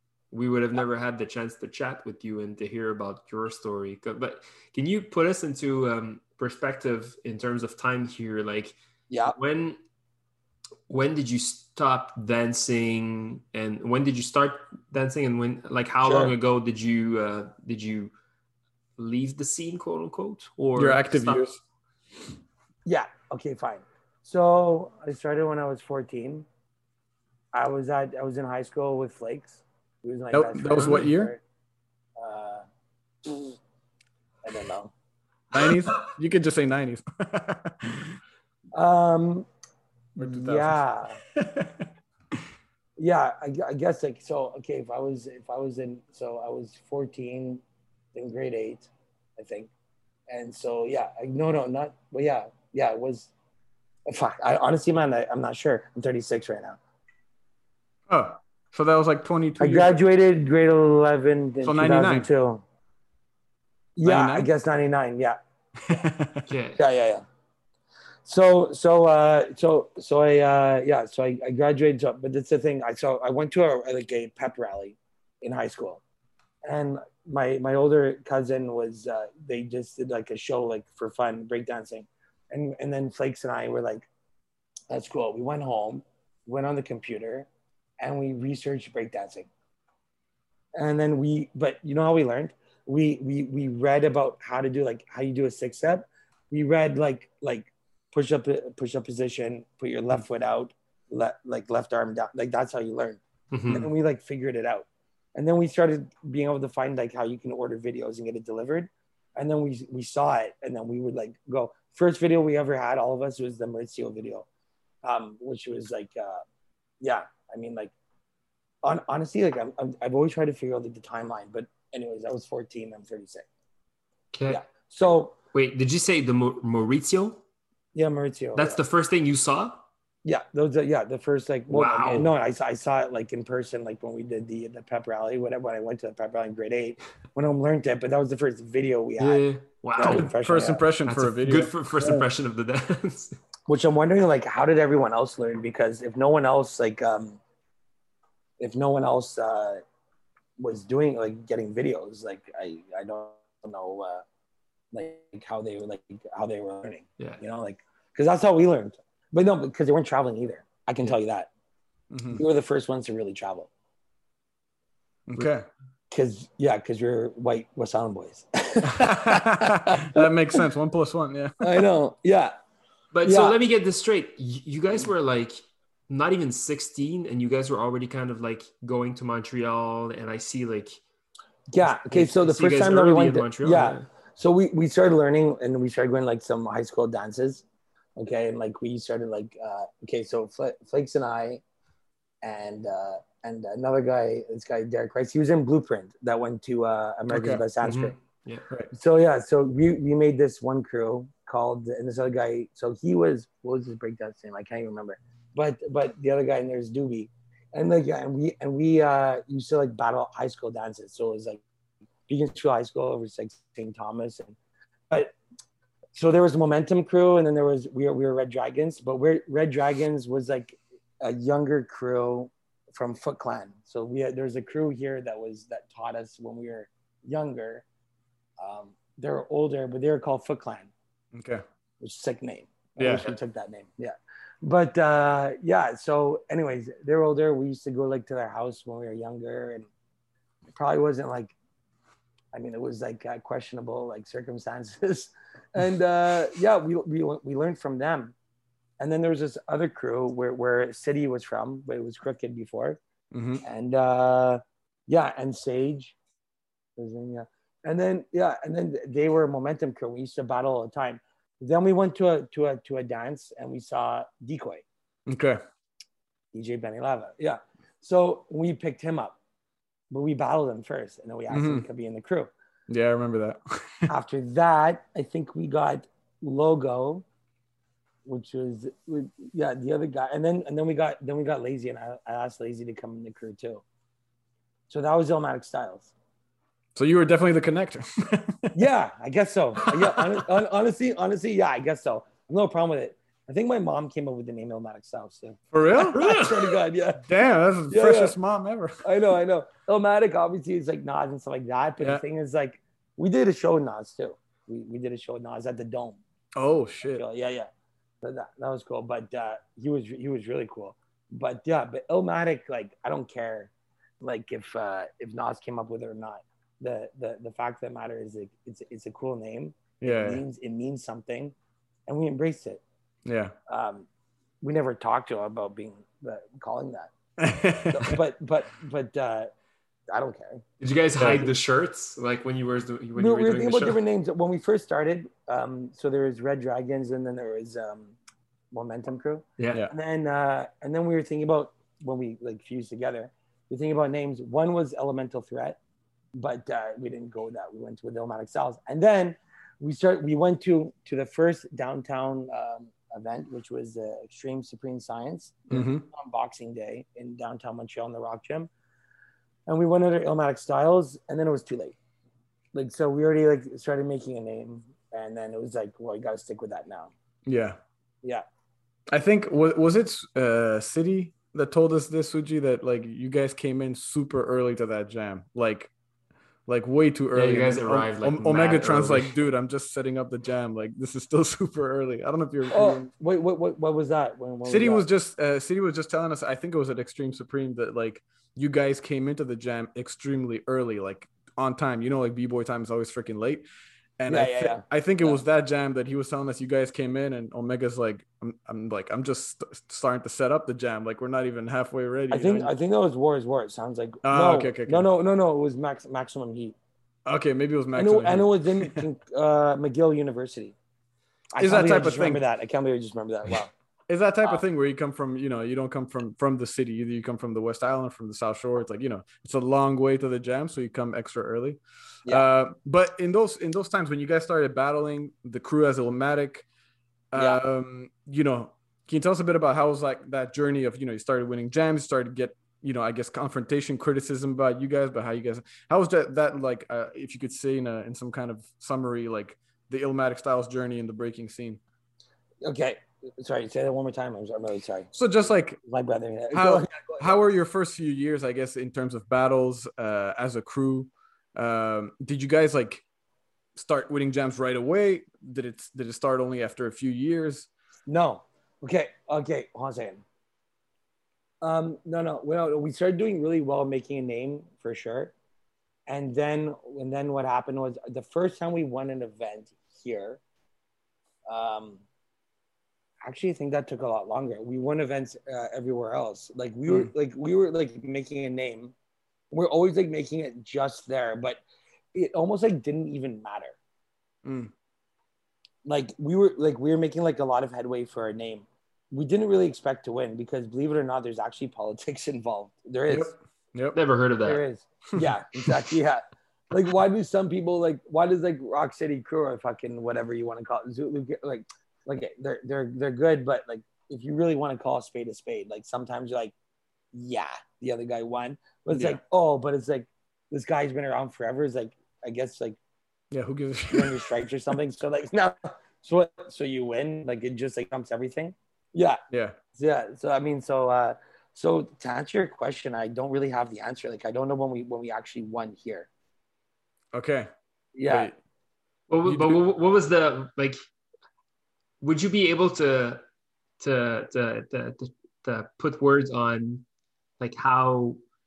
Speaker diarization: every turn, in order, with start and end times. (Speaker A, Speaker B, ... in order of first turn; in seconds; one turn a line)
Speaker A: 0.3-9.8
Speaker B: 9.1-9.4
Speaker A: 10.9-18.1
Speaker B: 16.1-16.3
Speaker A: 19.0-21.5
Speaker C: 20.8-21.6
Speaker B: 22.9-26.5
Speaker B: 27.5-31.4
Speaker C: 30.3-31.3
Speaker B: 32.2-32.7
Speaker B: 33.2-33.6
Speaker B: 34.4-34.9
Speaker C: 35.5-38.1
Speaker B: 38.7-39.5
Speaker B: 40.1-41.2
Speaker C: 40.2-40.8
Speaker C: 41.4-41.9
Speaker B: 43.0-47.6
Speaker B: 48.1-49.7
Speaker B: 50.3-53.3
Speaker B: 54.1-56.8
Speaker C: 58.1-60.0
Speaker B: 59.6-62.6
Speaker C: 61.6-62.3
Speaker B: 64.0-65.4
Speaker C: 64.0-64.5
Speaker C: 65.9-66.5
Speaker A: 66.5-66.8
Speaker B: 66.8-67.2
Speaker B: 68.2-76.0
Speaker B: 76.7-84.1
Speaker B: 84.9-87.5
Speaker B: 88.0-89.5
Speaker B: 90.8-114.5
Speaker A: 103.5-103.9
Speaker B: 115.0-116.4
Speaker B: 117.0-117.9
Speaker B: 118.8-123.5
Speaker A: 124.3-124.6
Speaker B: 124.5-125.4
Speaker A: 125.5-127.4
Speaker B: 127.9-128.8
Speaker A: 128.6-129.9
Speaker B: 130.2-139.4
Speaker A: 131.7-132.3
Speaker A: 139.2-140.3
Speaker B: 140.0-140.8
Speaker C: 140.0-141.7
Speaker A: 141.1-143.4
Speaker B: 143.7-147.4
Speaker B: 148.6-149.8
Speaker B: 150.6-154.2
Speaker B: 154.9-161.5
Speaker C: 162.1-162.4
Speaker B: 162.3-163.7
Speaker C: 165.3-165.7
Speaker B: 166.1-170.6
Speaker C: 168.8-171.7
Speaker B: 171.6-172.5
Speaker A: 173.1-175.6
Speaker B: 173.2-173.6
Speaker A: 176.1-181.0
Speaker B: 181.7-187.7
Speaker A: 182.0-184.1
Speaker B: 188.2-191.6
Speaker B: 192.4-198.1
Speaker C: 197.3-197.6
Speaker A: 197.8-198.7
Speaker B: 198.9-211.6
Speaker B: 212.3-214.6
Speaker B: 215.1-215.4
Speaker B: 216.1-227.8
Speaker B: 228.6-230.9
Speaker C: 231.3-231.6
Speaker B: 232.0-239.9
Speaker C: 233.0-233.3
Speaker B: 240.7-241.6
Speaker B: 242.5-248.3
Speaker B: 249.0-253.0
Speaker C: 253.3-253.6
Speaker B: 253.6-256.1
Speaker B: 257.0-264.9
Speaker C: 265.3-265.6
Speaker B: 266.5-269.4
Speaker B: 270.1-272.5
Speaker C: 271.5-271.9
Speaker C: 272.9-274.1
Speaker B: 274.1-277.2
Speaker B: 278.2-283.8
Speaker B: 284.9-286.1
Speaker C: 287.0-288.8
Speaker B: 288.7-297.2
Speaker C: 289.8-290.4
Speaker C: 295.7-296.2
Speaker A: 296.1-296.7
Speaker C: 297.2-299.0
Speaker B: 297.9-298.4
Speaker B: 299.0-306.2
Speaker C: 306.6-307.2
Speaker B: 307.0-307.7
Speaker B: 308.2-321.5
Speaker C: 320.0-320.4
Speaker B: 322.1-322.8
Speaker C: 323.3-323.5
Speaker B: 323.7-324.1
Speaker B: 324.6-327.1
Speaker C: 327.4-328.2
Speaker B: 327.9-329.5
Speaker B: 330.1-330.6
Speaker A: 330.8-334.0
Speaker C: 331.2-331.5
Speaker B: 333.2-338.1
Speaker B: 338.7-345.8
Speaker B: 346.4-358.7
Speaker C: 355.7-356.1
Speaker B: 359.7-362.0
Speaker B: 362.7-367.1
Speaker C: 367.5-367.8
Speaker C: 369.1-375.9
Speaker C: 376.7-383.1
Speaker A: 377.4-379.3
Speaker B: 382.7-385.1
Speaker C: 384.7-393.6
Speaker C: 394.2-402.7
Speaker B: 394.3-395.4
Speaker B: 402.3-406.8
Speaker C: 404.2-405.1
Speaker C: 407.3-409.0
Speaker B: 407.9-410.8
Speaker B: 411.5-413.7
Speaker C: 411.6-412.4
Speaker C: 414.1-426.7
Speaker C: 427.3-441.8
Speaker B: 427.4-427.6
Speaker B: 442.6-445.1
Speaker C: 445.1-445.8
Speaker B: 445.9-447.4
Speaker C: 446.5-453.0
Speaker C: 453.8-457.7
Speaker B: 458.1-460.2
Speaker B: 461.6-465.3
Speaker B: 466.1-470.4
Speaker B: 471.5-472.0
Speaker B: 473.2-478.9
Speaker B: 479.5-483.8
Speaker C: 484.4-484.7
Speaker B: 485.9-493.3
Speaker C: 493.1-494.0
Speaker A: 493.9-494.6
Speaker B: 494.4-506.6
Speaker C: 495.1-495.7
Speaker B: 507.1-512.8
Speaker C: 508.9-509.2
Speaker C: 513.3-514.3
Speaker B: 513.9-519.2
Speaker C: 519.3-519.6
Speaker B: 519.8-526.1
Speaker C: 527.1-527.5
Speaker B: 528.0-528.3
Speaker C: 528.1-528.4
Speaker A: 529.1-530.8
Speaker C: 529.2-529.6
Speaker A: 532.0-533.2
Speaker A: 533.8-536.9
Speaker A: 537.4-538.2